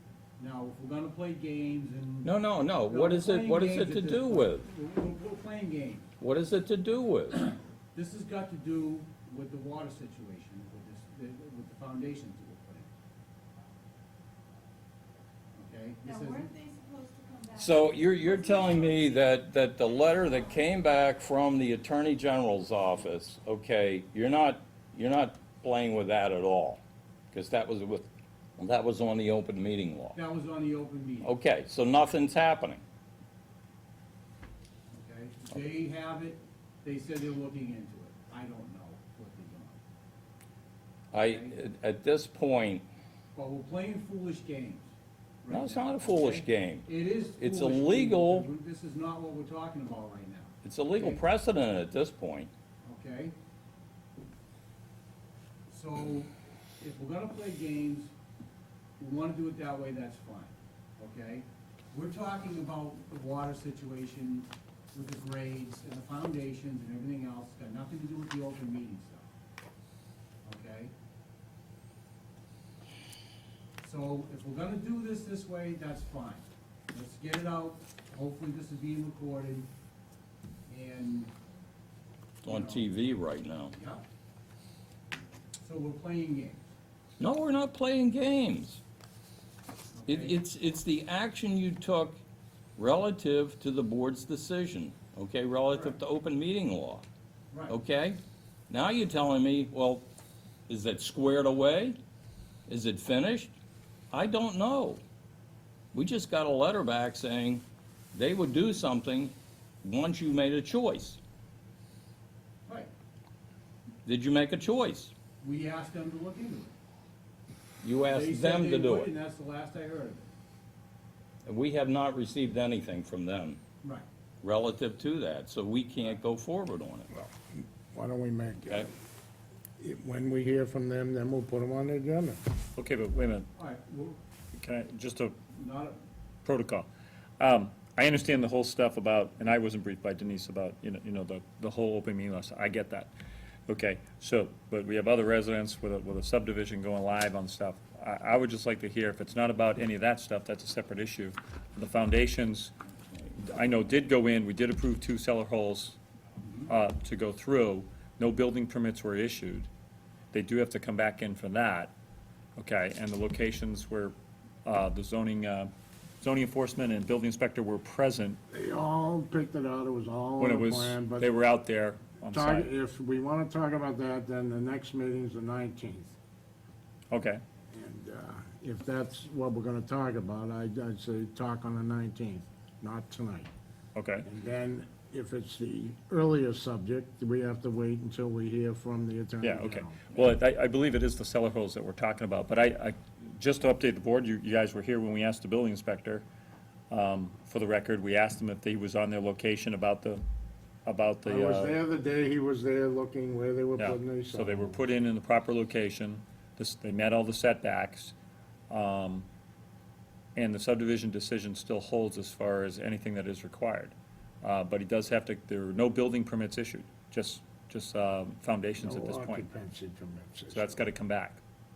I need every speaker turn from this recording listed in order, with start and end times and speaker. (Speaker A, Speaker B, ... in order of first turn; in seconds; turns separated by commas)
Speaker A: 0.4-2.3, Speaker B: 2.2-4.7, Speaker A: 2.9-6.1, Speaker B: 6.2-7.5, Speaker A: 7.9-12.9, Speaker A: 15.5-16.5, Speaker C: 16.0-19.3, Speaker B: 17.5-26.8, Speaker B: 27.3-30.2, Speaker A: 30.1-31.4, Speaker B: 31.2-32.8, Speaker A: 34.9-39.8, Speaker B: 41.1-42.9, Speaker A: 41.2-41.5, Speaker A: 43.3-44.9, Speaker A: 45.4-51.2, Speaker B: 45.5-48.5, Speaker B: 50.6-52.5, Speaker A: 52.8-53.3, Speaker A: 55.7-58.1, Speaker A: 59.0-69.3, Speaker A: 70.4-70.9, Speaker A: 73.8-79.7, Speaker A: 80.7-81.3, Speaker A: 82.4-82.8, Speaker B: 82.4-83.7, Speaker A: 83.7-84.0, Speaker A: 85.6-86.6, Speaker B: 87.2-88.8, Speaker A: 90.0-90.4, Speaker B: 90.1-92.2, Speaker B: 92.8-97.0, Speaker A: 95.7-96.0, Speaker A: 97.5-97.8, Speaker B: 97.7-98.2, Speaker B: 98.7-100.0, Speaker B: 100.7-102.0, Speaker B: 102.7-103.5, Speaker B: 104.1-105.0, Speaker B: 105.9-111.2, Speaker A: 112.7-112.9, Speaker B: 114.0-115.1, Speaker A: 115.4-116.7, Speaker B: 117.8-119.1, Speaker A: 118.0-120.3, Speaker B: 121.5-123.6, Speaker B: 124.4-127.1, Speaker D: 127.1-128.9, Speaker D: 129.8-132.4, Speaker E: 132.8-133.5, Speaker A: 133.6-134.2, Speaker E: 134.5-135.3, Speaker A: 135.5-136.0, Speaker E: 136.4-136.9, Speaker E: 137.4-143.1, Speaker E: 143.7-152.7, Speaker E: 153.3-156.0, Speaker A: 156.4-156.7, Speaker E: 156.7-159.7, Speaker E: 160.3-161.9, Speaker E: 162.6-164.1, Speaker E: 164.6-165.7, Speaker E: 166.2-168.4, Speaker D: 168.5-171.3, Speaker E: 170.4-172.7, Speaker D: 172.3-176.1, Speaker E: 177.1-177.4, Speaker D: 177.7-183.5, Speaker E: 183.9-184.2, Speaker D: 184.2-190.1, Speaker E: 189.4-196.2, Speaker E: 196.9-200.2, Speaker E: 200.8-201.8, Speaker D: 201.2-204.8, Speaker E: 203.8-208.1, Speaker E: 208.7-209.3, Speaker E: 210.3-219.5, Speaker D: 218.8-220.8, Speaker E: 220.5-221.4